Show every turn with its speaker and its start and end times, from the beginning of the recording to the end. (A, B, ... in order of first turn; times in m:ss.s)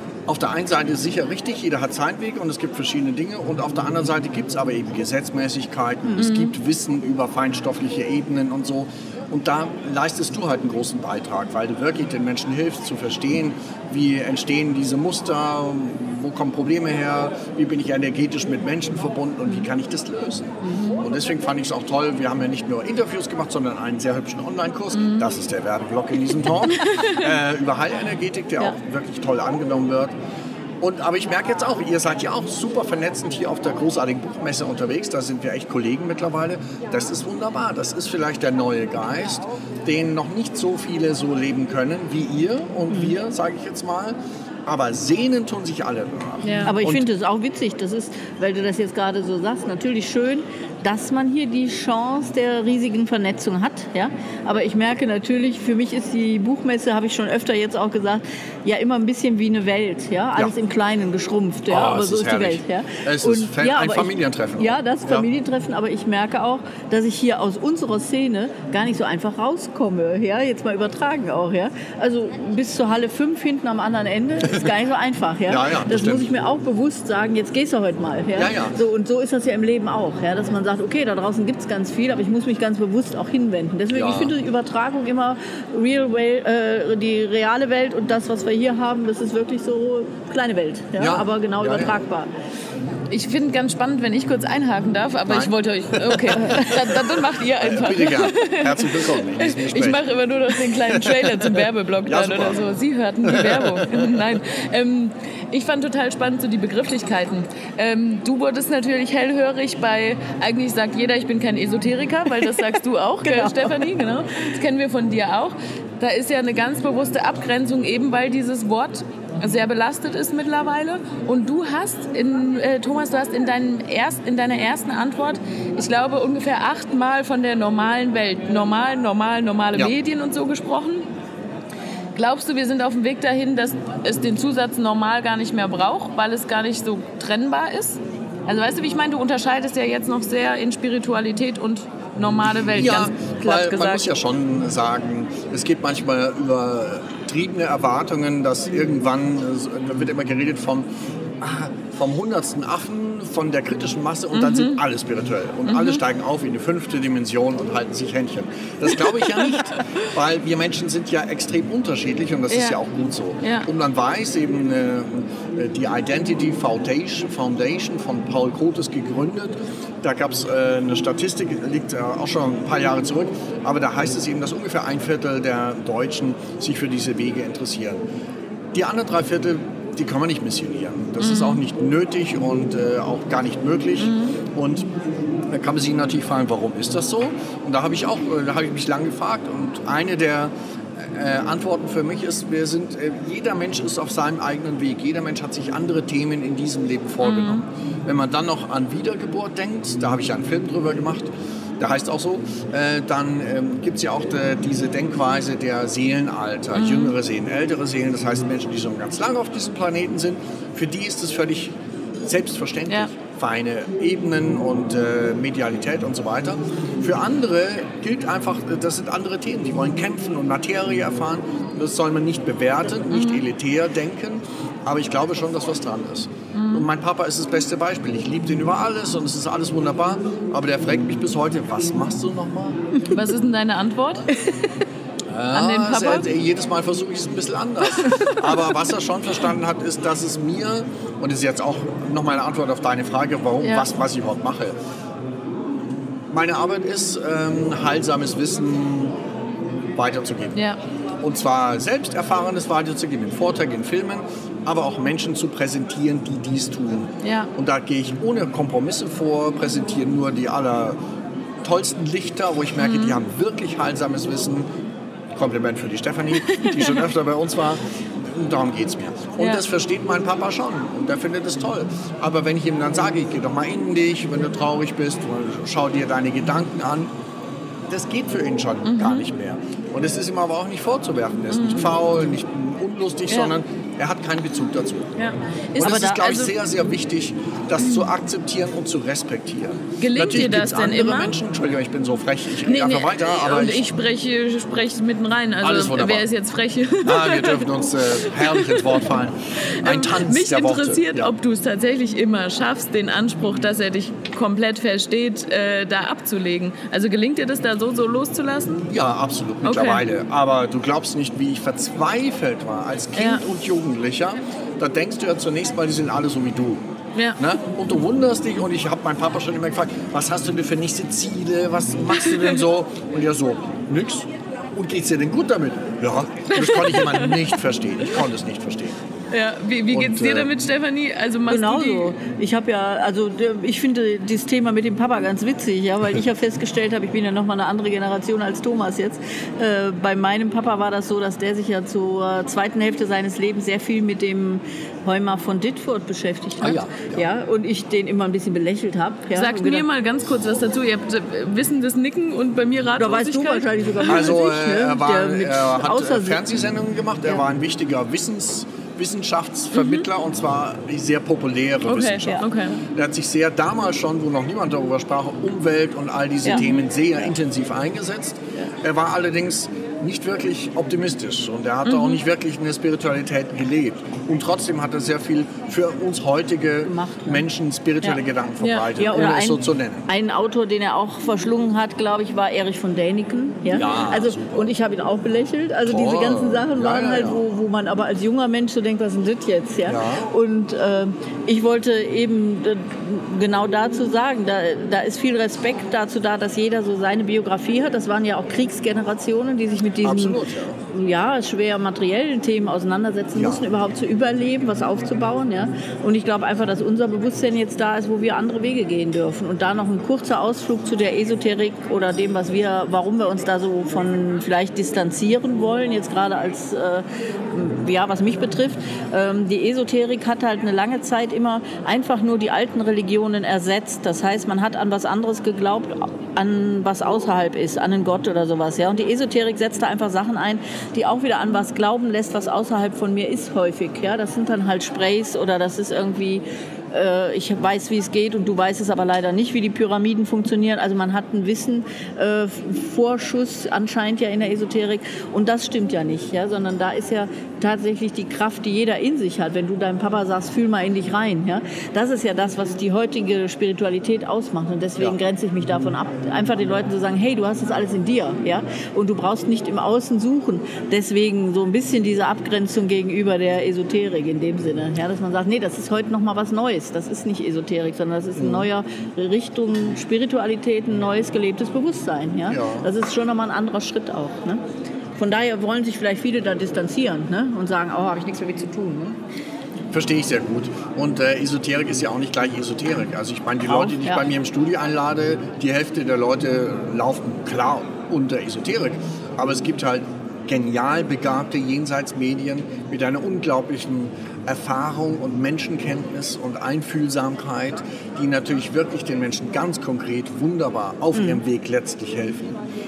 0:00.3-0:30.1 A
0:06.2-0:06.5 B
0:20.6-0:21.0 C
0:24.9-0:25.3 B
0:26.8-0:27.2 B
0:30.8-0:47.0 A
0:42.9-0:43.2 C
0:46.4-0:46.7 B
0:46.6-1:32.3 C
1:01.7-1:05.3 A
1:15.5-1:16.3 A
1:18.3-1:18.8 A
1:23.9-1:24.3 A
1:31.0-1:32.0 A
1:33.1-2:11.1 B
1:35.2-1:40.0 A
1:40.7-1:42.6 A
1:43.2-1:44.2 A
1:53.2-1:53.9 C
2:12.1-2:24.1 B
2:22.6-2:30.9 A
2:31.4-2:58.0 A
2:34.3-2:34.8 B
2:35.6-2:36.0 B
2:39.5-2:39.8 B
2:42.5-2:42.8 B
2:43.4-2:43.7 B
2:58.7-3:04.9 A
3:01.2-3:01.6 B
3:04.0-3:04.3 B
3:05.5-3:52.8 A
3:17.2-3:17.6 B
3:26.7-3:27.1 B
3:43.1-3:43.4 B
3:46.5-3:46.9 B
3:53.1-3:54.2 B
3:55.3-4:04.8 A
3:55.5-3:56.3 B
3:58.0-3:58.6 B
4:03.6-4:03.9 B
4:06.3-4:09.1 A
4:09.9-4:10.6 A
4:11.2-4:21.0 A
4:17.2-4:17.5 B
4:21.6-4:24.7 A
4:22.8-4:23.2 B
4:25.3-4:37.1 A
4:26.4-4:27.0 B
4:29.4-4:29.6 B
4:37.9-4:45.1 A
4:38.8-4:39.2 B
4:41.5-4:41.9 B
4:43.3-4:43.5 B
4:45.2-4:46.6 B
4:45.8-4:53.9 A
4:47.8-4:48.1 B
4:50.0-4:51.3 B
4:52.6-5:08.8 B
4:55.6-4:56.3 A
4:57.0-5:01.3 A
5:08.9-5:16.8 A
5:09.6-5:10.0 B
5:13.2-5:13.4 B
5:17.4-5:29.0 A
5:22.3-5:22.6 B
5:26.5-5:27.4 B
5:29.3-5:32.1 B
5:29.9-5:30.5 A
5:31.5-5:49.9 C
5:46.6-5:47.2 A
5:49.3-5:54.3 B
5:53.0-5:56.4 C
5:54.0-6:20.1 A
5:59.7-6:00.0 B
6:01.8-6:02.8 B
6:06.5-6:06.8 B
6:11.8-6:12.2 B
6:16.8-6:17.4 C
6:18.6-6:18.9 B
6:19.0-7:54.6 C
6:23.7-6:24.7 A
6:25.8-6:27.4 A
6:29.8-6:30.2 A
6:40.0-6:40.8 A
6:43.3-6:43.6 A
7:48.4-7:48.7 A
7:52.5-7:52.9 A
7:55.2-7:59.2 C
7:59.9-8:22.6 A
8:03.6-8:04.2 C
8:21.1-8:21.4 C